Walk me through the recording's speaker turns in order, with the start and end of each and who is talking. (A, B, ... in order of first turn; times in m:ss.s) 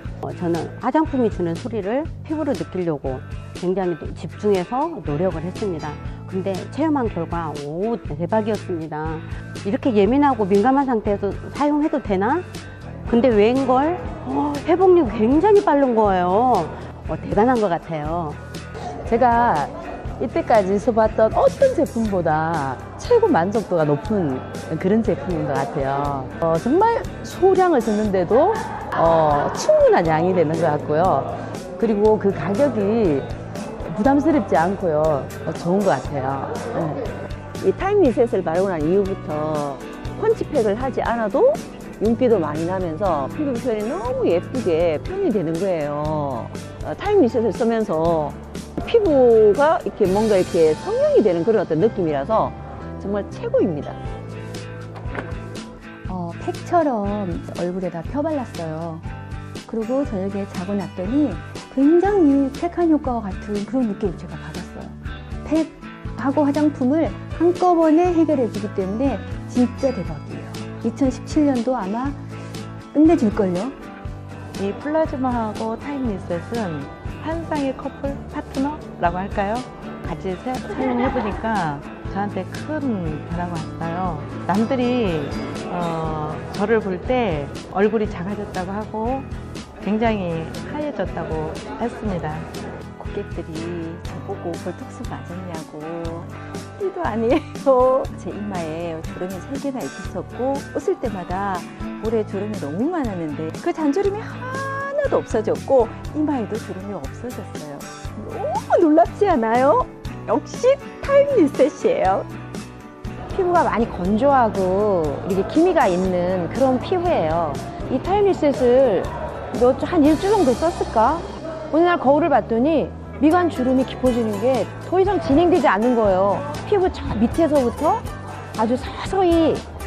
0:00.2-0:12.5 A
0:13.1-0:18.4 A
0:19.1-0:33.3 B
0:33.8-0:37.0 B
0:37.6-0:54.0 C
0:56.1-0:59.0 D
0:59.7-1:12.2 D
1:12.9-1:13.8 D
1:14.6-1:29.3 E
1:29.8-1:32.5 E
1:33.0-1:52.2 F
1:53.3-2:09.6 G